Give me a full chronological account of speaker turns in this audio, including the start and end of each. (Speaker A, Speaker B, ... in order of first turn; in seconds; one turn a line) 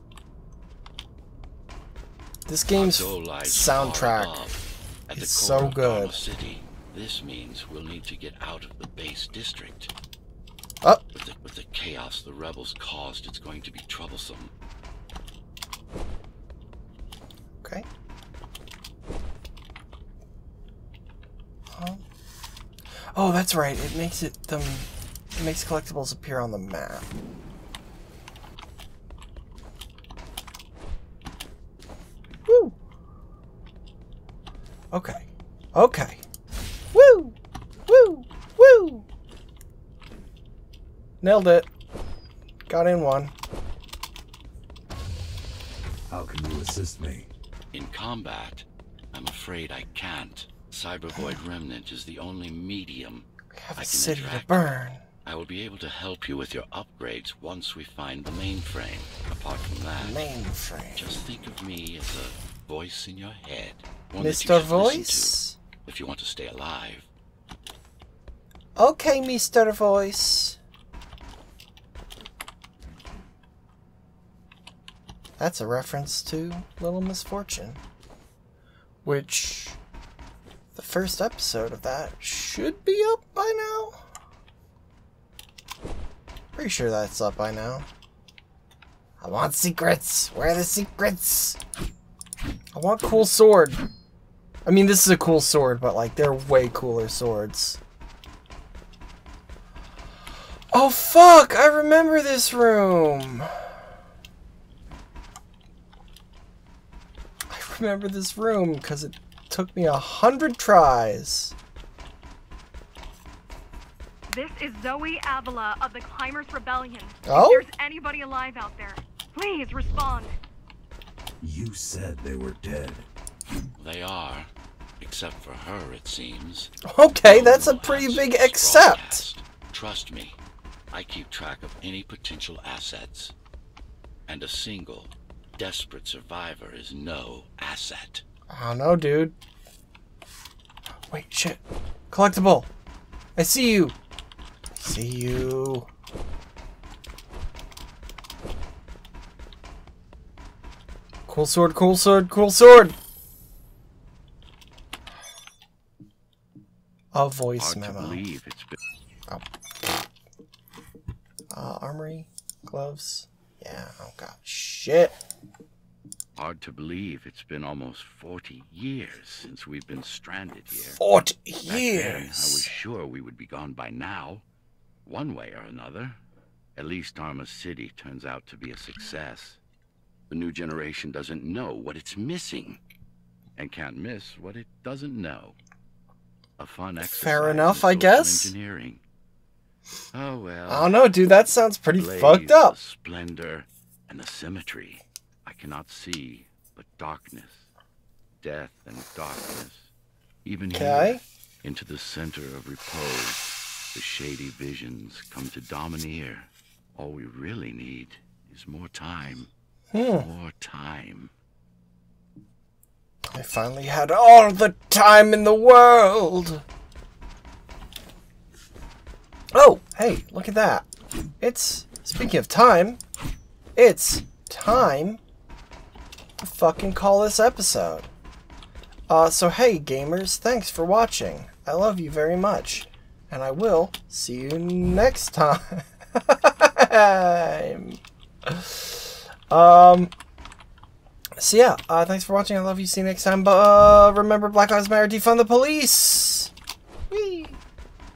Speaker A: 2.5-4.4
Speaker B: 2.7-9.9
Speaker A: 5.2-6.2
Speaker B: 11.1-14.5
Speaker A: 21.8-22.0
Speaker A: 23.1-27.1
Speaker A: 32.5-32.8
Speaker A: 34.9-36.2
Speaker A: 36.9-37.4
Speaker A: 37.9-39.0
Speaker A: 41.2-41.7
Speaker A: 42.7-43.3
Speaker C: 46.1-47.3
Speaker B: 47.7-54.7
Speaker A: 53.5-55.0
Speaker B: 55.2-60.3
Speaker A: 60.0-61.1
Speaker B: 61.0-67.1
Speaker A: 64.2-65.6
Speaker A: 68.8-70.6
Speaker A: 75.4-77.8
Speaker A: 79.0-79.8
Speaker A: 80.8-84.0
Speaker A: 86.5-87.9
Speaker A: 89.2-91.6
Speaker A: 92.7-93.8
Speaker A: 94.7-97.8
Speaker A: 100.7-103.5
Speaker A: 107.5-111.5
Speaker D: 114.3-120.3
Speaker A: 117.3-117.7
Speaker C: 121.4-123.1
Speaker B: 123.8-130.4
Speaker A: 126.9-129.2
Speaker B: 130.9-133.4
Speaker B: 134.3-138.2
Speaker A: 138.5-139.3
Speaker A: 141.1-142.7
Speaker A: 143.4-143.9
Speaker A: 144.8-145.9
Speaker A: 151.3-153.0
Speaker A: 157.1-158.2
Speaker B: 157.6-158.8
Speaker A: 161.5-165.2
Speaker B: 166.4-171.0
Speaker A: 171.0-172.7
Speaker B: 171.7-174.4
Speaker B: 175.1-176.2
Speaker B: 176.8-179.6
Speaker B: 180.3-182.8
Speaker B: 183.6-185.6
Speaker B: 186.6-189.0
Speaker A: 187.0-188.5
Speaker B: 190.1-191.2
Speaker A: 190.7-192.8
Speaker B: 191.9-197.7
Speaker B: 198.4-199.9
Speaker B: 200.4-209.5
Speaker A: 200.7-201.2
Speaker A: 209.9-210.3
Speaker B: 210.0-211.3
Speaker A: 213.3-216.6
Speaker A: 219.5-220.9
Speaker A: 221.4-223.0
Speaker A: 223.8-225.2
Speaker A: 226.4-228.1
Speaker A: 229.1-240.1
Speaker A: 241.4-246.5
Speaker A: 247.1-247.6